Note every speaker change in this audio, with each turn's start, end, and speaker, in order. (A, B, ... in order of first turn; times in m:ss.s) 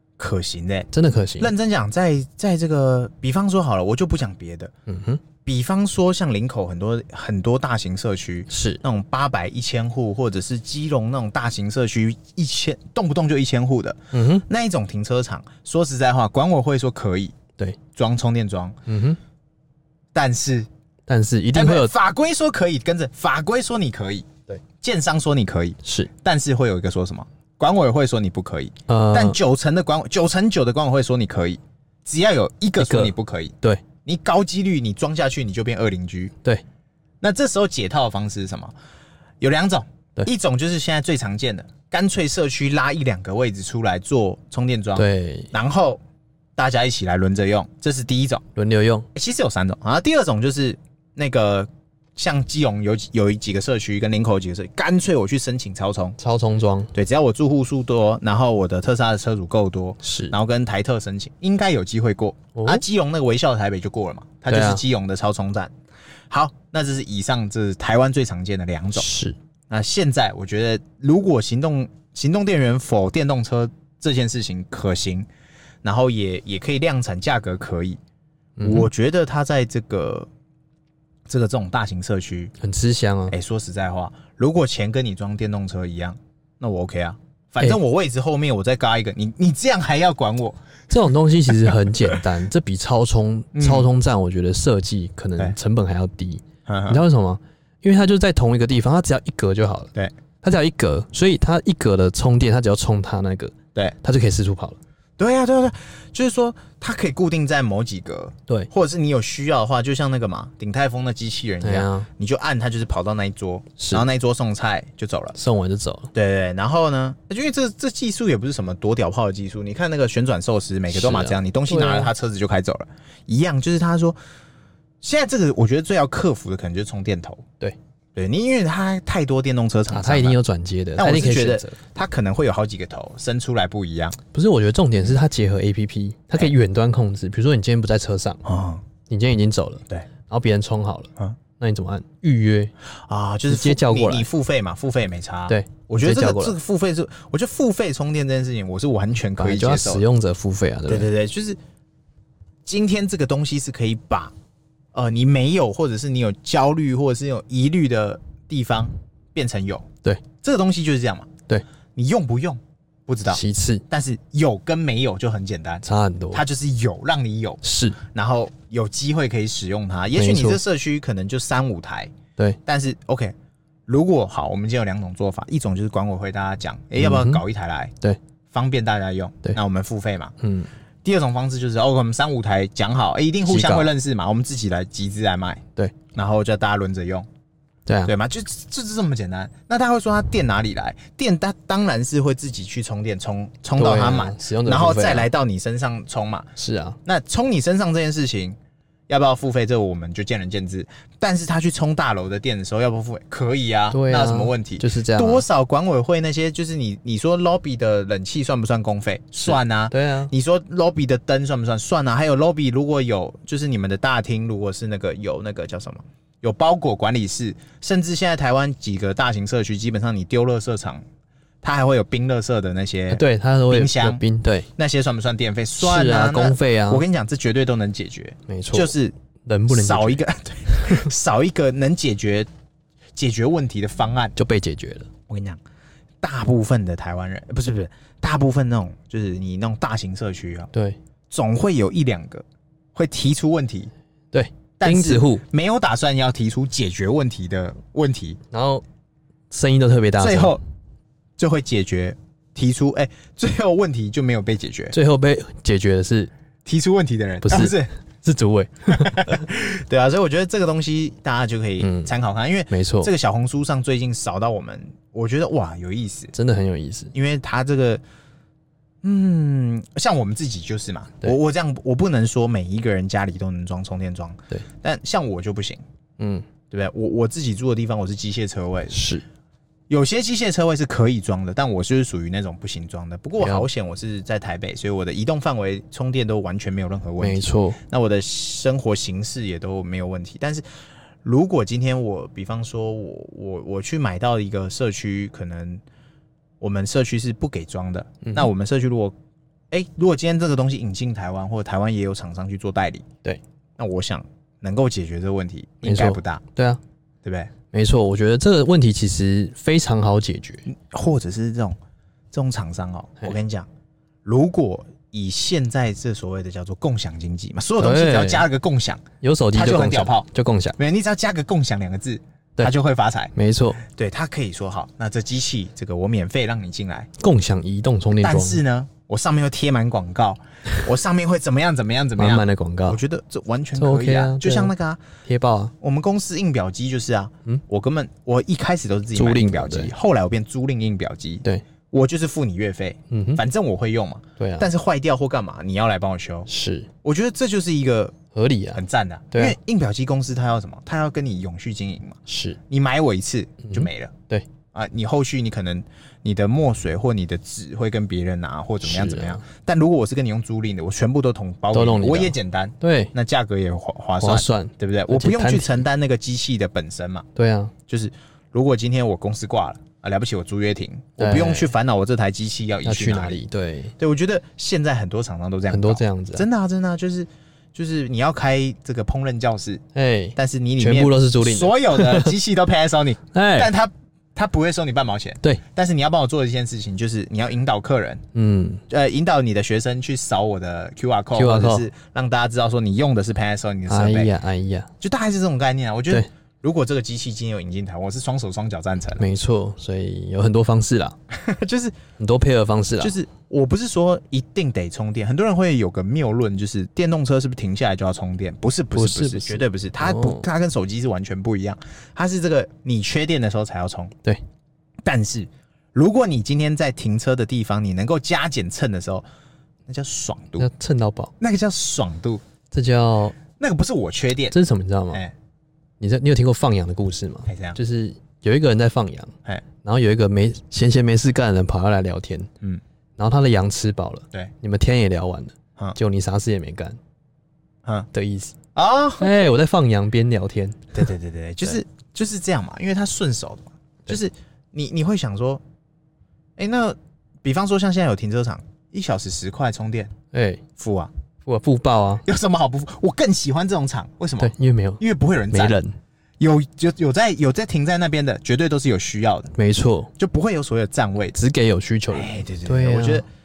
0:00.2-0:00.9 A
0:00.9-0:01.5 B
0:01.4-0:04.7 A
0:04.9-0:05.2 B
0:05.4-0:17.3 A
0:08.5-0:08.8 B
0:14.1-0:14.4 B
0:17.9-0:18.8 A
0:18.9-0:19.2 B
0:20.1-0:20.7 A
0:21.1-0:21.9 B
0:21.5-0:24.3 A
0:24.8-0:36.3 A
0:25.8-0:26.1 B
0:28.9-0:29.4 B
0:32.8-0:33.8 B
0:37.2-0:38.7 A
0:39.4-0:46.0 A
0:45.0-0:45.5 B
0:46.6-0:48.4 A
0:48.6-0:49.1 B
0:49.1-0:56.2 A
0:56.2-0:56.9 B
0:56.9-1:05.7 A
1:00.0-1:00.3 B
1:02.5-1:02.8 B
1:04.5-1:04.8 B
1:06.3-1:09.1 A
1:09.0-1:09.4 B
1:09.7-1:15.3 A
1:15.8-1:18.0 A
1:18.6-1:18.9 B
1:18.6-1:20.3 A
1:21.3-1:22.5 A
1:22.6-1:23.4 B
1:23.3-1:30.6 A
1:30.9-1:39.9 B
1:31.6-1:32.2 A
1:33.5-1:33.9 A
1:36.6-1:37.0 A
1:40.4-1:44.8 B
1:45.2-1:55.4 A
1:51.6-1:52.1 B
1:53.8-1:54.0 B
1:55.3-1:56.1 B
1:56.1-2:04.2 A
2:00.9-2:02.1 B
2:05.0-2:07.4 A
2:08.2-2:10.4 A
2:09.9-2:11.8 B
2:11.0-2:14.2 A
2:14.3-2:18.4 B
2:18.4-2:18.8 A
2:19.1-2:22.7 B
2:23.0-2:30.0 A
2:23.5-2:24.3 B
2:25.5-2:26.6 B
2:29.4-2:31.1 B
2:30.9-2:31.6 A
2:32.6-2:34.3 A
2:34.9-2:39.9 A
2:40.4-2:41.3 A
2:42.0-2:52.1 A
2:43.2-2:43.8 B
2:45.8-2:46.4 B
2:47.6-2:48.0 B
2:50.1-2:50.6 B
2:52.6-2:53.3 A
2:53.9-2:57.9 A
2:57.0-2:57.4 B
2:58.5-3:00.3 A
3:00.4-3:00.7 B
3:01.0-3:07.3 A
3:03.4-3:03.9 B
3:07.9-3:08.1 B
3:08.0-3:16.5 A
3:13.8-3:15.3 B
3:16.6-3:17.0 B
3:17.0-3:18.6 A
3:19.1-3:41.0 A
3:23.9-3:25.4 B
3:29.4-3:30.3 B
3:41.6-3:44.2 A
3:43.1-3:44.7 B
3:44.8-3:49.1 A
3:45.8-3:47.0 B
3:48.5-3:48.9 B
3:49.4-3:51.0 B
3:49.7-3:52.5 A
3:53.2-3:54.3 A
3:54.4-3:55.1 B
3:55.3-3:55.6 A
3:56.2-4:00.7 A
4:00.7-4:01.0 B
4:01.3-4:02.4 A
4:02.9-4:03.9 A
4:04.3-4:05.4 B
4:04.8-4:08.4 A
4:08.5-4:08.8 B
4:09.5-4:10.6 B
4:10.2-4:10.6 A
4:11.4-4:14.9 A
4:14.9-4:16.3 B
4:16.6-4:17.9 A
4:17.4-4:19.4 B
4:18.9-4:26.3 A
4:21.8-4:22.1 B
4:22.7-4:23.1 B
4:26.3-4:27.1 B
4:27.1-4:28.0 A
4:29.0-4:35.8 A
4:36.2-4:36.4 B
4:36.7-4:39.0 A
4:38.9-4:39.2 B
4:39.9-4:50.6 A
4:43.4-4:43.7 B
4:47.2-4:47.8 B
4:51.2-4:55.8 A
4:56.6-4:59.1 A
4:58.2-4:58.5 B
4:59.7-5:03.0 A
5:03.8-5:06.4 A
5:05.8-5:06.8 B
5:07.2-5:07.5 A
5:07.7-5:10.6 B
5:10.7-5:11.8 A
5:12.3-5:13.7 A
5:14.2-5:19.0 A
5:17.8-5:18.5 B
5:19.2-5:20.8 B
5:19.5-5:20.3 A
5:20.8-5:23.3 A
5:23.3-5:23.8 B
5:23.8-5:27.1 A
5:27.2-5:28.6 B
5:28.2-5:35.0 A
5:32.2-5:33.0 B
5:33.8-5:34.7 B
5:35.2-5:35.7 B
5:35.8-5:46.5 A
5:39.2-5:39.9 B
5:43.1-5:43.4 B
5:44.4-5:44.7 B
5:46.5-5:46.9 B
5:47.0-5:48.2 A
5:48.3-5:49.6 B
5:48.7-5:52.2 A
5:52.3-5:52.6 B
5:52.7-5:54.1 A
5:53.6-5:54.4 B
5:54.7-6:07.3 A
5:58.8-5:59.4 B
6:01.7-6:03.1 B
6:04.2-6:05.8 B
6:07.3-6:07.7 B
6:07.9-6:13.4 A
6:11.2-6:11.7 B
6:12.8-6:13.9 B
6:14.0-6:19.8 A
6:15.7-6:16.4 B
6:19.9-6:22.3 B
6:20.3-6:28.2 A
6:23.3-6:23.7 B
6:28.3-6:28.8 B
6:28.9-6:34.3 A
6:31.3-6:31.8 B
6:33.9-6:34.9 B
6:35.0-6:39.2 A
6:39.2-6:41.2 B
6:41.3-6:42.0 A
6:42.2-6:43.1 B
6:43.0-6:54.1 A
6:48.9-6:50.4 B
6:55.0-6:59.2 A
6:59.9-7:00.6 A
7:00.6-7:01.3 B
7:01.4-7:02.4 A
7:02.7-7:03.4 B
7:03.5-7:04.5 A
7:04.5-7:05.2 B
7:06.0-7:12.5 B
7:07.5-7:07.8 A
7:13.2-7:17.0 B
7:18.1-7:18.5 B
7:18.7-7:19.5 A
7:19.2-7:20.9 B
7:20.9-7:25.6 A
7:26.6-7:30.1 A
7:30.3-7:30.6 B
7:30.8-7:31.1 A
7:31.4-7:32.2 B
7:32.2-7:35.8 A
7:34.4-7:36.0 B
7:36.4-7:39.5 A
7:39.5-7:40.1 B
7:40.2-7:41.3 A
7:41.3-7:43.2 B
7:42.1-7:43.2 A